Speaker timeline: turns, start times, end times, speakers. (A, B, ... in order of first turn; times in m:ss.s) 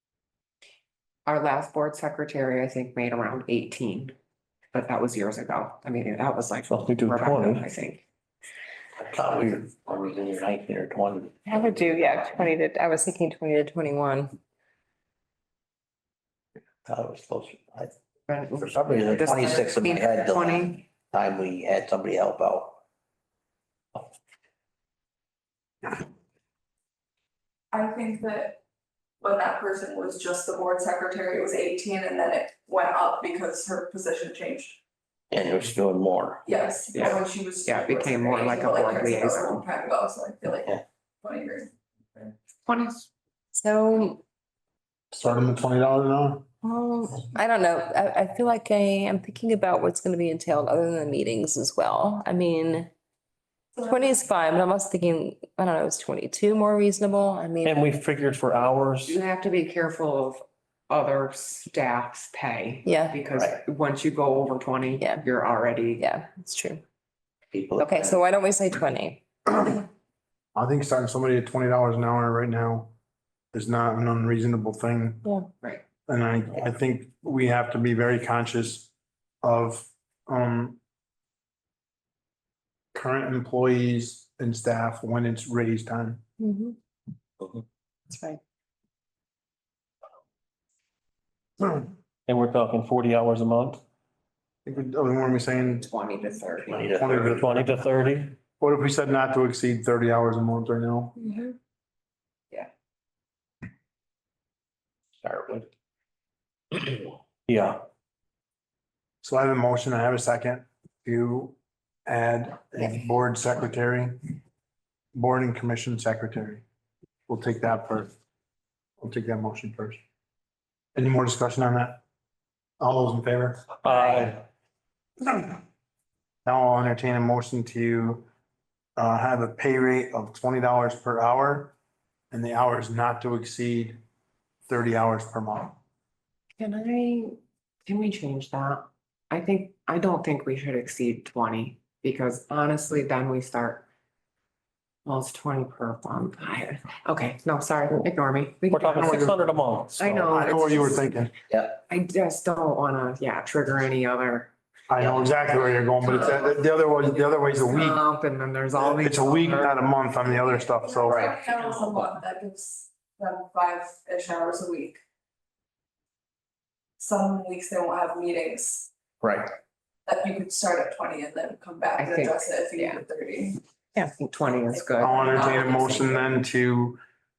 0:01.2-0:04.1 A
0:04.7-0:08.0 A
0:06.7-0:07.6 B
0:09.0-0:12.2 C
0:11.4-0:14.4 D
0:16.8-0:17.9 C
0:18.3-0:20.8 A
0:18.6-0:22.8 C
0:27.7-0:28.6 E
0:29.2-0:34.8 E
0:35.3-0:36.4 C
0:36.4-0:41.7 E
0:36.9-0:39.6 A
0:42.6-0:43.1 A
0:43.5-0:44.2 D
0:45.1-0:46.5 F
0:46.6-0:52.9 D
0:53.8-0:54.1 E
0:53.8-0:57.8 D
0:57.6-0:59.2 B
0:59.0-1:06.0 A
1:02.8-1:03.2 D
1:03.3-1:03.6 C
1:06.0-1:06.8 D
1:07.5-1:08.3 C
1:07.8-1:09.2 D
1:10.5-1:12.9 F
1:13.5-1:15.2 F
1:15.2-1:15.5 D
1:16.1-1:20.8 F
1:22.9-1:26.2 F
1:26.4-1:26.8 D
1:28.1-1:28.4 D
1:32.3-1:33.8 B
1:34.6-1:35.9 F
1:35.6-1:37.0 A
1:36.7-1:37.4 C
1:36.9-1:37.8 F
1:37.2-1:38.3 B
1:38.6-1:41.2 F
1:41.2-1:41.5 D
1:45.2-1:45.7 C
1:46.7-1:47.0 C
1:47.5-1:47.8 B
1:49.2-1:54.4 F
1:55.1-1:56.6 F
1:57.3-1:58.1 F
1:59.0-2:00.0 F
2:00.9-2:02.0 F
2:02.8-2:03.7 F
2:03.8-2:04.4 B
2:06.4-2:08.2 F
2:09.0-2:11.7 F
2:12.3-2:14.0 F
2:14.7-2:15.8 F
2:16.6-2:23.8 A
2:25.0-2:29.3 A
2:28.7-2:30.3 B
2:29.0-2:29.6 F
2:30.0-2:31.1 A
2:30.2-2:31.3 F
2:31.5-2:31.8 C
2:31.9-2:34.5 A
2:34.9-2:38.0 F
2:35.0-2:35.4 C
2:36.0-2:36.5 A
2:37.6-2:40.3 A
2:38.8-2:41.3 F
2:40.8-2:45.0 E
2:41.1-2:42.0 C
2:47.0-2:48.9 E
2:49.2-2:49.5 C
2:50.0-2:53.6 E
2:52.0-2:53.0 A
2:54.0-2:56.0 A
2:55.0-2:57.0 F
2:55.0-2:56.2 E